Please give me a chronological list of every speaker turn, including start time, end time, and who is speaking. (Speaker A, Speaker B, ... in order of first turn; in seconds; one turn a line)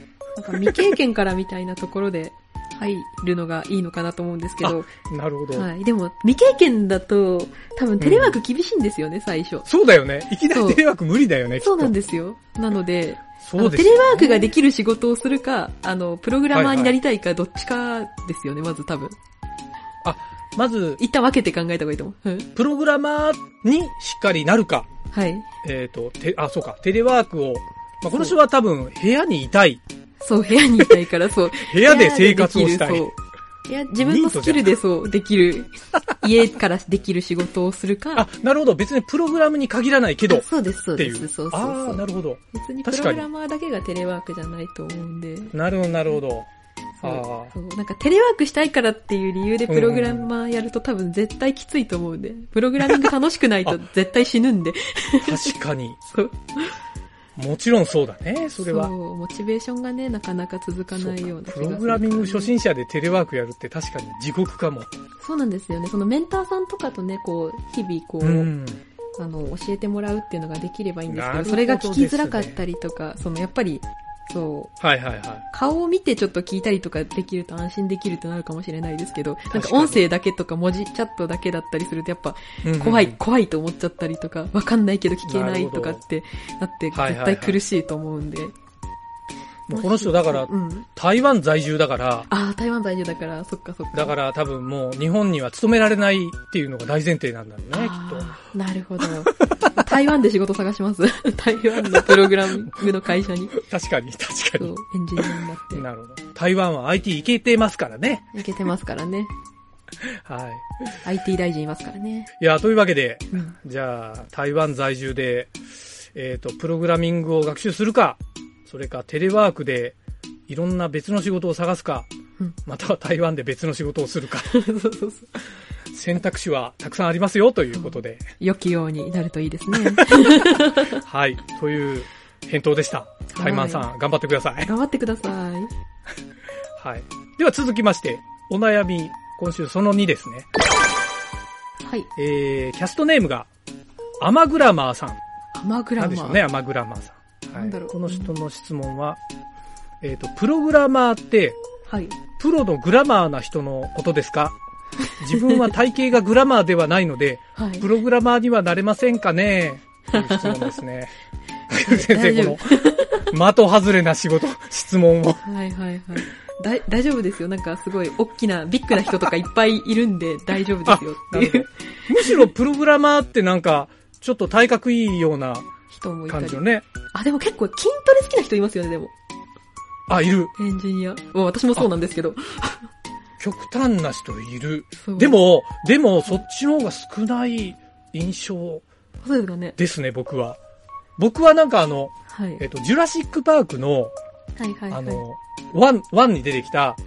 Speaker A: 0.4-4.9
Speaker B: 0.5-0.9
Speaker B: 4.6-5.7
Speaker A: 5.5-9.7
Speaker B: 8.0-8.4
Speaker B: 9.7-11.9
Speaker A: 10.5-10.8
Speaker A: 11.6-19.2
Speaker B: 13.4-14.5
Speaker B: 16.5-17.0
Speaker B: 20.0-21.0
Speaker A: 21.0-22.5
Speaker B: 22.6-24.9
Speaker A: 25.1-25.5
Speaker B: 25.6-29.8
Speaker A: 30.2-38.3
Speaker B: 31.7-33.1
Speaker B: 34.0-34.7
Speaker B: 38.1-40.5
Speaker A: 40.3-45.5
Speaker B: 41.0-43.3
Speaker B: 45.5-46.5
Speaker A: 47.0-55.5
Speaker B: 47.0-47.5
Speaker B: 49.7-50.3
Speaker B: 55.2-56.0
Speaker A: 56.1-56.8
Speaker B: 57.4-58.9
Speaker A: 58.6-62.5
Speaker B: 60.9-64.9
Speaker A: 65.2-68.5
Speaker B: 68.2-68.8
Speaker A: 69.2-74.7
Speaker B: 71.1-72.6
Speaker B: 74.8-75.5
Speaker A: 75.5-88.5
Speaker B: 79.5-80.0
Speaker B: 82.6-83.2
Speaker B: 85.2-86.0
Speaker B: 86.9-87.6
Speaker B: 89.7-92.3
Speaker A: 89.7-90.9
Speaker A: 92.3-94.2
Speaker B: 93.9-98.3
Speaker A: 97.7-103.6
Speaker B: 101.8-102.9
Speaker B: 103.5-108.4
Speaker A: 104.6-105.8
Speaker A: 108.3-109.3
Speaker B: 110.0-110.7
Speaker A: 111.0-112.3
Speaker B: 112.4-115.5
Speaker B: 116.2-120.0
Speaker B: 120.5-122.1
Speaker B: 122.7-124.5
Speaker A: 124.5-125.4
Speaker B: 125.9-128.2
Speaker A: 127.7-131.0
Speaker B: 129.7-130.1
Speaker B: 130.9-134.7
Speaker A: 133.3-133.9
Speaker A: 134.6-135.7
Speaker B: 136.8-140.5
Speaker B: 142.2-143.5
Speaker B: 144.2-145.2
Speaker A: 145.5-146.4
Speaker B: 146.0-149.2
Speaker A: 147.5-148.3
Speaker B: 150.0-151.6
Speaker A: 151.9-152.2
Speaker B: 152.4-154.6
Speaker B: 155.2-161.1
Speaker A: 155.3-155.7
Speaker A: 157.6-157.9
Speaker A: 160.1-160.7
Speaker B: 161.7-165.4
Speaker A: 161.9-163.3
Speaker A: 165.4-172.5
Speaker B: 170.9-175.7
Speaker A: 175.9-179.1
Speaker B: 176.3-176.9
Speaker B: 180.1-180.6
Speaker A: 180.6-182.9
Speaker B: 183.4-188.8
Speaker A: 185.0-185.4
Speaker A: 189.2-189.8
Speaker B: 189.8-190.6
Speaker B: 191.2-194.1
Speaker A: 192.3-192.6
Speaker A: 194.6-195.2
Speaker B: 194.9-197.0